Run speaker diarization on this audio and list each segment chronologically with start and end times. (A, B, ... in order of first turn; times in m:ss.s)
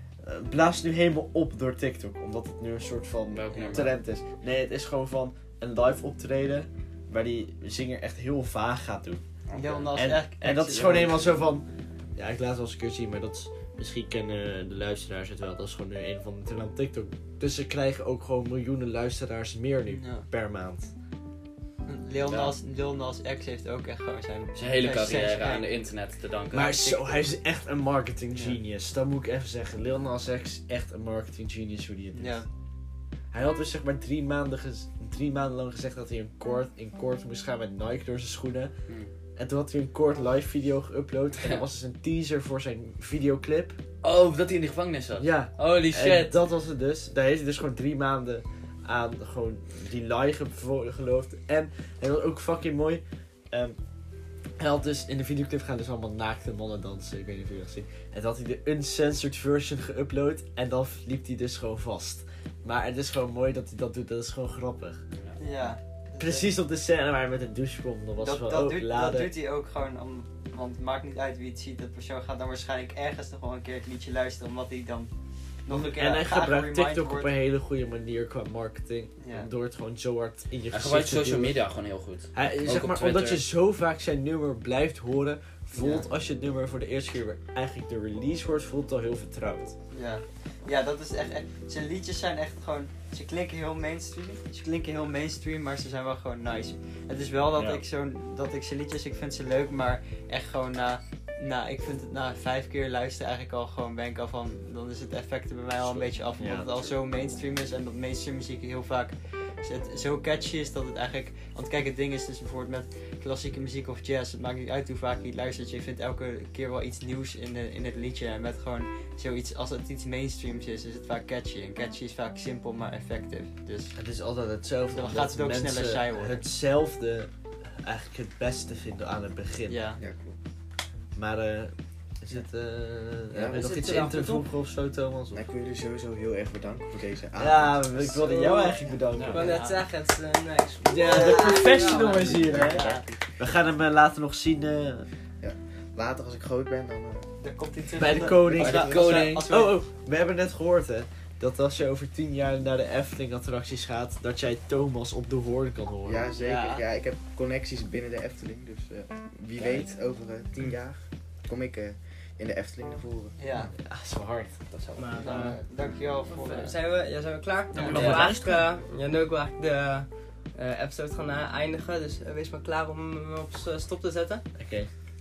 0:00.2-0:09.2 A
0:03.3-0:03.9 B
0:03.5-0:03.9 C
0:09.5-0:09.9 B
0:09.5-0:11.3 C
0:09.9-0:20.9 A
0:10.8-0:11.2 B
0:19.9-0:20.2 C
0:21.8-0:25.6 C
0:22.2-0:22.6 B
0:24.6-0:26.9 B
0:26.5-0:32.4 A
0:32.1-0:32.4 C
0:33.3-0:38.7 A
0:39.4-0:43.8 A
0:44.0-0:46.3 B
0:45.2-0:53.8 A
0:54.6-1:05.0 A
1:05.1-1:05.4 B
1:05.4-1:06.5 C
1:06.2-1:09.3 A
1:08.2-1:15.1 C
1:15.6-1:17.3 C
1:15.7-1:21.6 A
1:19.2-1:19.5 C
1:20.7-1:23.4 B
1:22.3-1:29.7 A
1:25.8-1:26.0 C
1:29.9-2:03.9 C
1:37.6-1:37.8 A
1:45.8-1:46.9 A
2:03.9-2:09.8 A
2:04.9-2:06.4 C
2:09.7-2:10.0 C
2:10.0-2:10.3 D
2:11.2-2:15.4 A
2:13.3-2:14.1 D
2:13.5-2:14.4 E
2:15.3-2:18.9 D
2:17.4-2:19.6 A
2:18.0-2:19.8 C
2:19.3-2:22.8 E
2:20.8-2:25.1 A
2:21.0-2:23.2 C
2:22.2-2:23.0 D
2:25.4-2:27.3 D
2:27.4-2:29.8 C
2:28.0-2:36.3 A
2:28.1-2:29.2 D
2:36.0-2:43.4 D
2:36.4-2:36.8 C
2:39.6-2:39.9 A
2:43.4-2:43.7 C
2:43.7-2:44.8 A
2:45.0-2:45.6 E
2:45.2-2:46.7 C
2:46.3-2:54.4 E
2:47.7-2:48.2 C
2:47.8-2:48.6 A
2:54.6-2:54.9 A